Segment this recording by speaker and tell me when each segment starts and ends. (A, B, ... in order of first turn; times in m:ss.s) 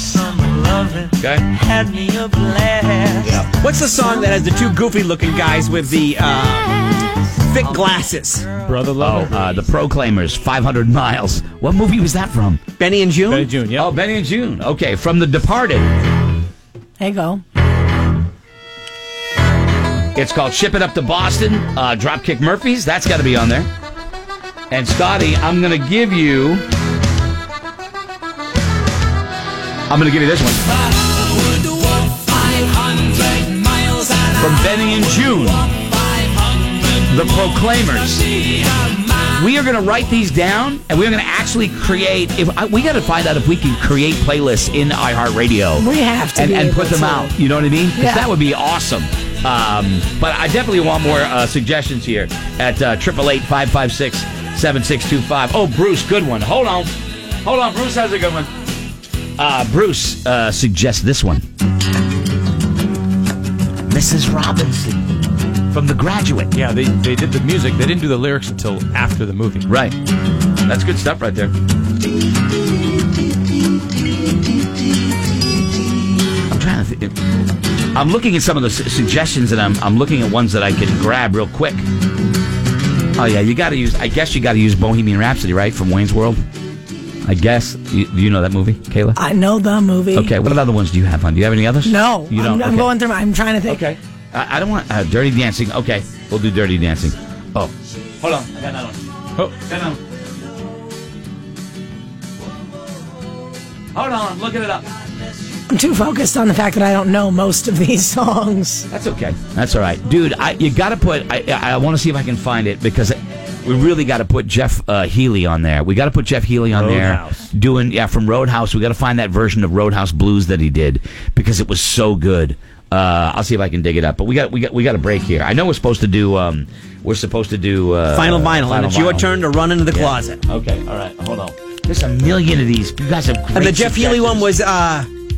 0:00.2-0:08.6 A
0:01.2-0:01.5 B
0:03.2-0:03.5 B
0:08.7-0:09.3 C
0:09.0-0:12.6 B
0:12.8-0:13.5 A
0:13.3-0:13.8 C
0:13.7-0:15.9 B
0:17.0-0:17.4 D
0:20.2-0:23.7 B
0:24.7-0:26.6 B
0:29.9-0:30.8 B
0:34.3-0:35.7 B
0:36.9-0:38.3 B
0:39.3-0:56.9 B
0:45.8-0:47.4 D
0:48.0-0:48.3 D
0:57.4-0:58.5 B
0:59.4-1:01.5 B
1:03.9-1:05.1 B
1:05.7-1:06.5 B
1:06.6-1:09.7 C
1:09.7-1:10.0 B
1:10.7-1:11.5 B
1:16.5-1:17.2 B
1:17.9-1:21.8 B
1:23.2-1:26.4 B
1:27.2-1:29.2 B
1:29.2-1:30.4 D
1:30.1-1:32.9 B
1:31.8-1:33.8 D
1:33.6-1:40.0 B
1:43.9-1:44.9 B
1:45.7-1:48.9 D
1:48.9-2:14.6 B
1:56.7-1:57.4 C
2:08.1-2:10.4 A
2:13.5-2:15.1 A